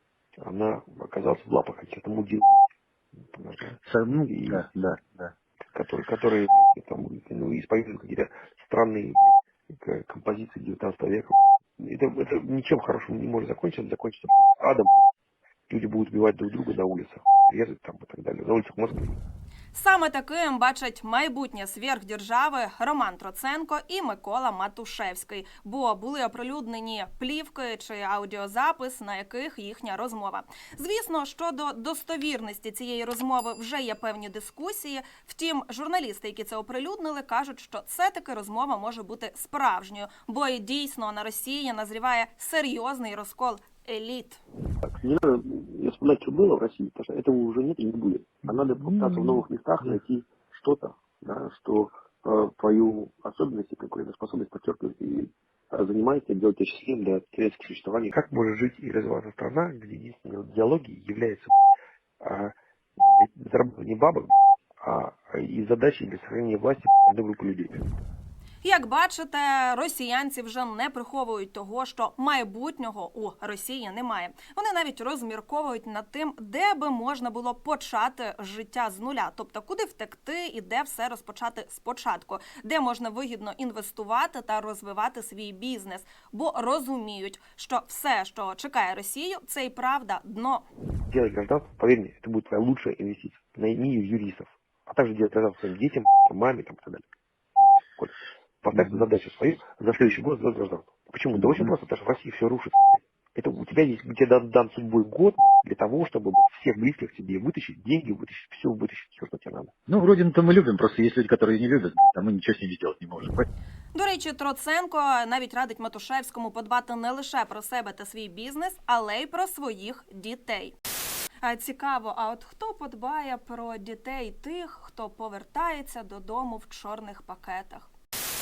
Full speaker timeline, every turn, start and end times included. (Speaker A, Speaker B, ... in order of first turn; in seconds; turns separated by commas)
Speaker A: 0.4-2.6, Speaker A: 3.3-3.8, Speaker B: 3.8-5.3, Speaker A: 4.3-4.6, Speaker A: 5.7-15.1, Speaker A: 15.7-19.2, Speaker C: 19.7-44.4, Speaker A: 44.8-61.7, Speaker A: 62.2-67.8, Speaker C: 68.6-90.7, Speaker A: 91.0-97.0, Speaker A: 98.0-109.7, Speaker B: 109.9-113.5, Speaker C: 113.9-120.8, Speaker C: 121.4-127.9